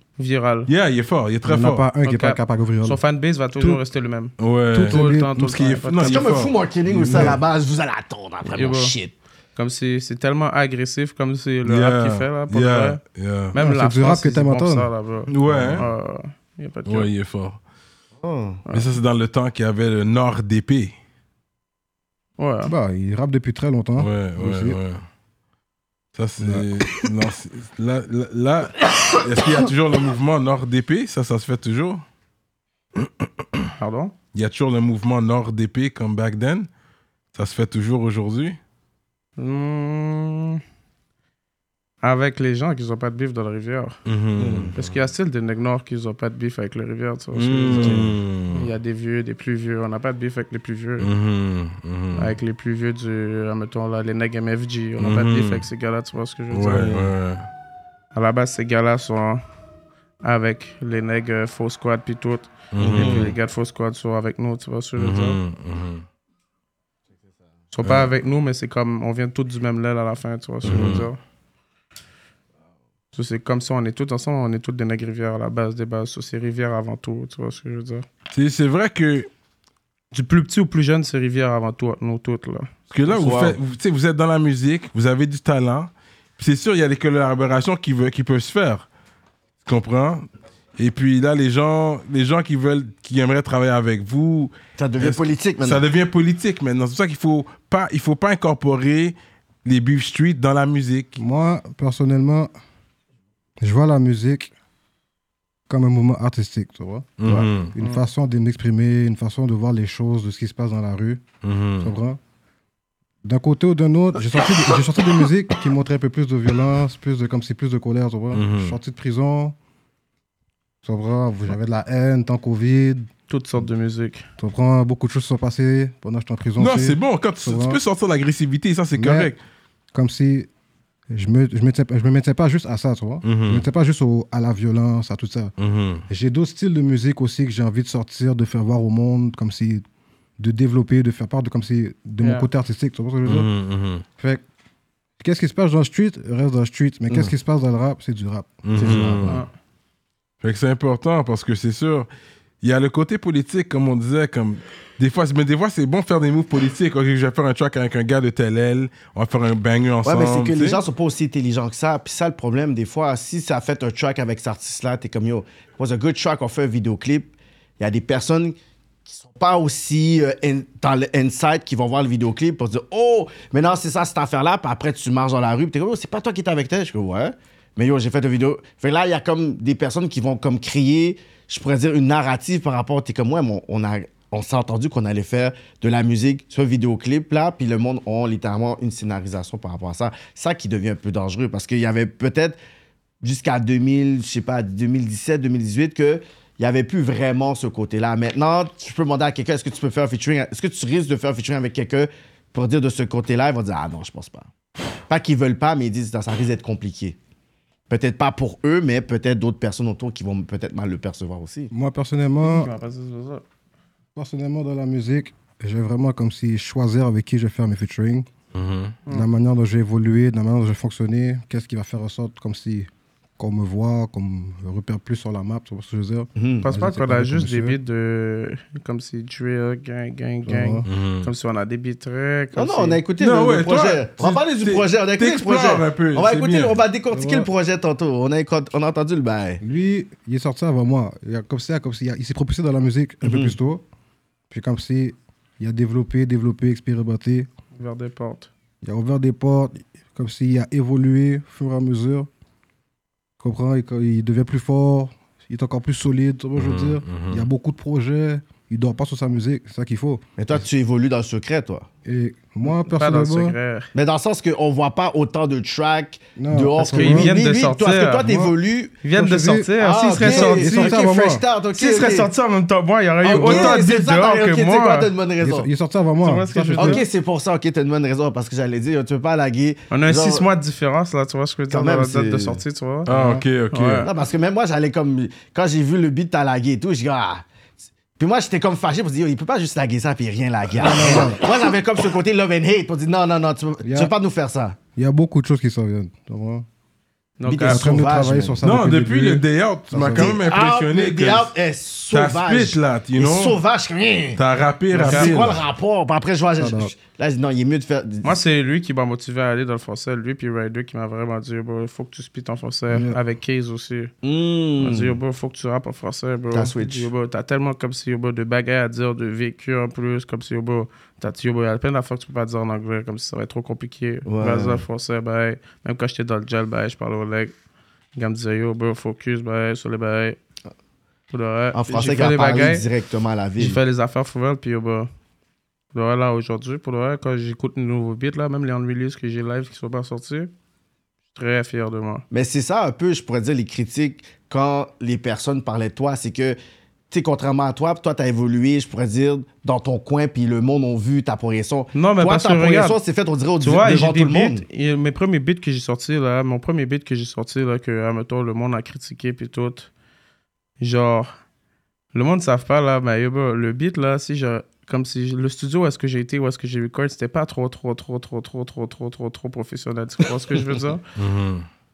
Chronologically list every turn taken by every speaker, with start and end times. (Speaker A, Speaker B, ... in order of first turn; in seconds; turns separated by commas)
Speaker A: 0.2-0.7, Speaker B: 0.7-1.8, Speaker C: 1.4-3.0, Speaker A: 2.0-4.3, Speaker B: 4.4-7.4, Speaker C: 4.7-5.6, Speaker A: 4.9-6.3, Speaker D: 6.0-9.1, Speaker C: 7.1-7.4, Speaker A: 8.4-8.9, Speaker A: 9.5-13.0, Speaker B: 11.7-13.5, Speaker A: 13.5-17.1, Speaker C: 13.6-14.9, Speaker B: 15.3-15.9, Speaker C: 15.5-15.8, Speaker B: 16.9-17.6, Speaker D: 18.2-18.6, Speaker B: 18.7-20.9, Speaker A: 22.4-22.7, Speaker C: 22.6-24.8, Speaker B: 24.0-25.0, Speaker B: 26.1-32.0, Speaker C: 26.4-26.7, Speaker B: 32.9-33.7, Speaker A: 33.8-34.1, Speaker B: 34.3-36.7, Speaker B: 37.3-38.6, Speaker A: 39.4-40.6, Speaker A: 42.0-44.0, Speaker B: 44.0-44.8, Speaker D: 44.4-44.8, Speaker A: 44.7-51.1, Speaker B: 47.3-48.7, Speaker D: 47.8-48.1, Speaker B: 51.0-52.3, Speaker A: 52.1-57.0, Speaker B: 55.0-55.6, Speaker B: 56.5-57.5, Speaker A: 58.1-59.4, Speaker A: 60.2-65.4, Speaker B: 62.7-63.3, Speaker D: 62.8-63.3, Speaker B: 65.0-66.0, Speaker A: 67.7-71.2, Speaker B: 67.8-68.1, Speaker B: 70.6-71.1, Speaker A: 73.1-78.0, Speaker B: 78.3-79.3, Speaker A: 80.1-82.7, Speaker B: 82.9-88.9, Speaker D: 83.1-83.6, Speaker B: 89.6-90.2, Speaker B: 90.8-101.2, Speaker D: 94.8-95.8, Speaker C: 101.2-102.5, Speaker C: 103.6-104.5, Speaker C: 105.7-107.1, Speaker B: 107.2-107.8, Speaker C: 107.7-111.2, Speaker B: 111.4-111.9, Speaker C: 111.8-112.2, Speaker C: 113.2-119.5, Speaker B: 118.3-118.8, Speaker C: 120.8-123.1, Speaker A: 123.3-124.3, Speaker C: 124.4-127.8, Speaker B: 126.6-129.4, Speaker C: 128.9-129.3, Speaker C: 129.9-130.5, Speaker C: 131.1-135.5, Speaker B: 133.2-133.6, Speaker B: 135.6-136.1, Speaker C: 136.1-139.8, Speaker C: 140.4-143.5, Speaker A: 142.2-142.5, Speaker B: 143.2-144.0, Speaker C: 144.2-144.4, Speaker C: 145.2-148.6, Speaker B: 148.6-149.4, Speaker D: 148.8-149.4, Speaker B: 150.4-152.1, Speaker B: 152.6-160.8, Speaker D: 160.0-192.6, Speaker D: 193.2-204.5, Speaker D: 205.1-207.2, Speaker D: 207.9-211.7, Speaker C: 211.7-212.7, Speaker A: 212.4-213.4, Speaker C: 214.2-218.3, Speaker B: 218.5-219.0, Speaker C: 219.1-227.8, Speaker D: 226.3-226.7, Speaker A: 226.6-233.0, Speaker C: 230.4-230.8, Speaker B: 230.8-231.3, Speaker D: 232.6-239.6, Speaker B: 233.2-236.8, Speaker C: 237.1-237.5, Speaker C: 239.6-243.8, Speaker D: 243.2-243.5, Speaker C: 244.5-247.5, Speaker A: 247.7-248.5, Speaker C: 248.8-252.3, Speaker C: 253.4-260.6, Speaker B: 256.6-257.5, Speaker D: 260.4-261.9, Speaker C: 262.0-263.6, Speaker A: 262.6-263.9, Speaker D: 263.9-269.0, Speaker C: 266.4-267.3, Speaker A: 266.9-268.3, Speaker C: 268.2-268.5, Speaker A: 269.0-271.0, Speaker C: 269.1-271.4, Speaker D: 269.8-272.3, Speaker A: 271.7-275.1, Speaker D: 273.2-275.7, Speaker C: 273.3-273.8, Speaker C: 275.4-277.0, Speaker A: 276.2-277.0, Speaker D: 276.8-280.4, Speaker A: 279.9-283.1, Speaker D: 281.7-282.6, Speaker C: 283.1-283.4, Speaker B: 283.1-284.1, Speaker A: 283.7-284.1, Speaker D: 284.0-287.4, Speaker D: 288.2-294.8, Speaker C: 290.7-291.4, Speaker C: 293.8-294.1, Speaker C: 294.9-296.6, Speaker A: 297.4-297.9, Speaker D: 297.4-298.6, Speaker C: 297.6-300.4, Speaker B: 298.6-301.5, Speaker D: 300.1-304.4, Speaker B: 302.1-303.6, Speaker B: 304.4-305.6, Speaker A: 304.9-305.3, Speaker D: 305.0-308.4, Speaker C: 306.6-306.9, Speaker A: 308.2-314.1, Speaker C: 312.9-313.2, Speaker D: 314.2-315.2, Speaker A: 314.8-327.5, Speaker D: 316.5-317.1, Speaker D: 324.3-324.8, Speaker A: 328.1-330.4, Speaker A: 331.3-332.9, Speaker D: 331.7-333.8, Speaker A: 333.6-335.1, Speaker A: 335.9-340.5, Speaker A: 341.3-342.2, Speaker D: 342.3-346.6, Speaker D: 347.1-354.6, Speaker A: 351.9-353.0, Speaker A: 353.6-359.9, Speaker A: 360.8-361.3, Speaker A: 362.1-371.0, Speaker B: 371.1-371.6